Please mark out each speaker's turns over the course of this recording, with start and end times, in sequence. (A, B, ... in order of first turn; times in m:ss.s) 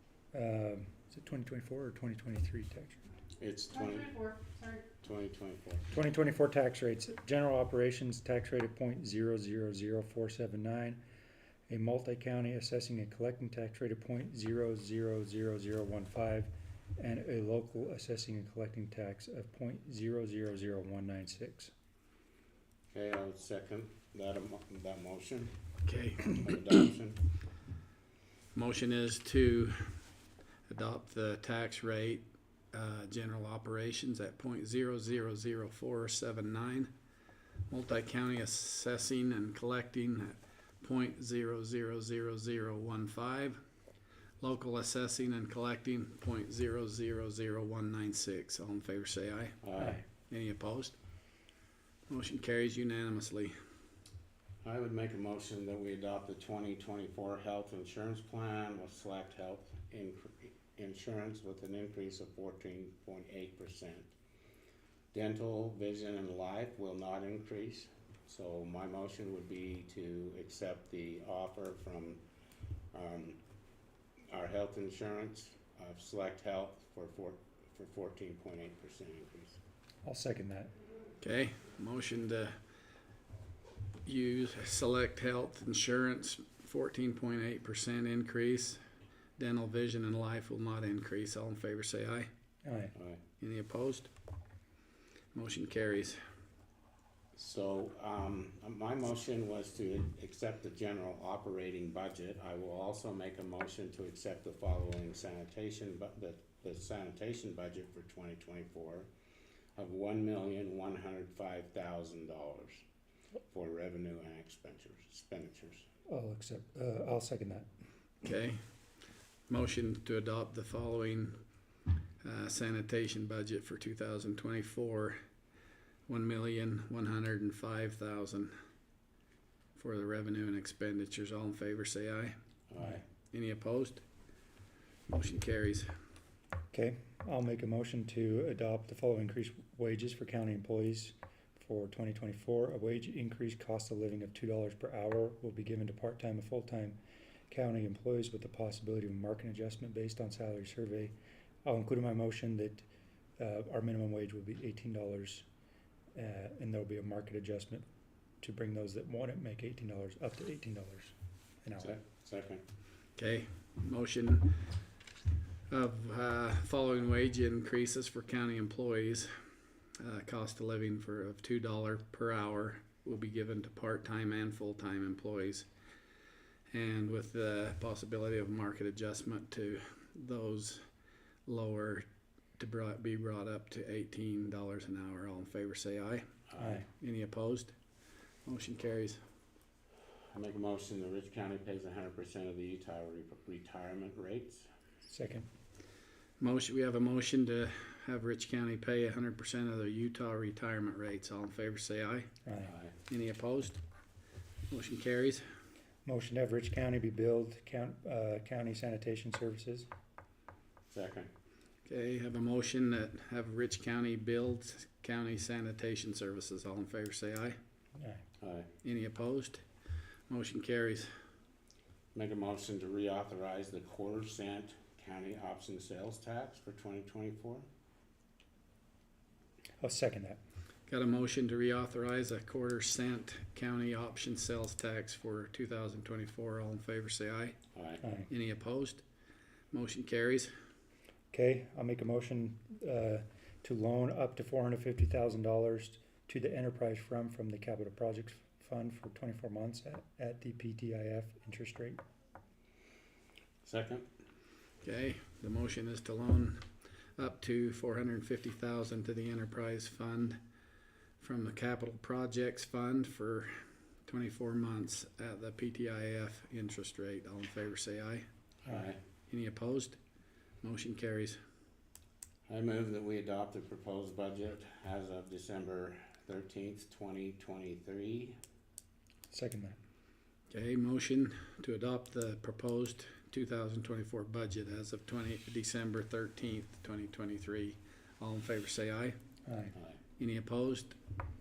0:00.3-0:03.0 A
0:03.4-0:04.4 B
0:05.0-0:05.8 B
0:05.9-0:11.0 A
0:11.7-0:21.7 A
0:22.9-0:25.5 B
0:25.9-0:26.5 C
0:26.3-0:27.2 B
0:28.5-0:29.9 C
0:30.7-0:36.9 C
0:37.7-0:43.6 C
0:44.4-0:51.0 C
0:49.6-0:50.0 B
0:52.1-0:53.6 C
0:54.6-1:04.1 B
1:05.1-1:12.2 B
1:12.9-1:13.4 B
1:14.3-1:19.6 B
1:20.0-1:20.7 A
1:21.2-1:22.5 C
1:24.0-1:28.8 C
1:29.4-1:32.3 C
1:32.6-1:32.9 A
1:33.0-1:33.2 B
1:33.4-1:34.1 C
1:35.3-1:36.2 C
1:37.4-1:49.1 B
1:49.8-1:52.8 B
1:53.5-1:55.9 B
1:56.1-1:57.7 A
1:58.2-1:58.6 C
1:59.5-2:01.4 C
2:02.2-2:05.2 C
2:06.1-2:08.5 C
2:09.8-2:12.4 C
2:12.7-2:13.0 B
2:12.9-2:14.0 C
2:15.1-2:15.9 C
2:16.7-2:32.9 A
2:33.4-2:35.5 A
2:36.2-2:37.8 A
2:38.4-2:41.1 A
2:41.6-2:42.0 A
2:41.8-2:42.6 B
2:43.2-2:44.6 C
2:45.7-2:49.3 C
2:50.0-2:55.7 C
2:56.7-3:00.8 C
3:01.5-3:02.1 C
3:02.6-3:06.3 C
3:06.5-3:06.8 B
3:06.6-3:06.8 A
3:06.9-3:07.7 C
3:08.4-3:09.2 C
3:10.3-3:14.7 B
3:15.1-3:15.5 A
3:16.4-3:22.3 C
3:22.5-3:22.7 A
3:22.6-3:22.9 B
3:23.1-3:23.8 C
3:24.7-3:25.4 C
3:26.0-3:29.9 A
3:30.9-3:31.3 B
3:31.8-3:37.6 C
3:38.4-3:38.7 B
3:38.8-3:39.6 C
3:40.3-3:41.1 C
3:42.1-3:47.6 B
3:49.8-3:50.4 A
3:50.9-3:57.6 C
3:57.8-3:58.0 B
3:58.0-3:58.3 A
3:58.3-3:59.0 C
3:59.7-4:00.5 C
4:01.3-4:12.0 A
4:13.6-4:14.1 B
4:14.8-4:16.6 C
4:17.2-4:20.4 C
4:21.2-4:23.5 C
4:24.1-4:28.3 C
4:28.6-4:29.0 B
4:29.3-4:30.0 C
4:30.6-4:31.4 C
4:32.5-4:38.4 B
4:39.3-4:39.8 A
4:40.5-4:49.2 C
4:49.5-4:49.8 A
4:50.2-4:51.0 C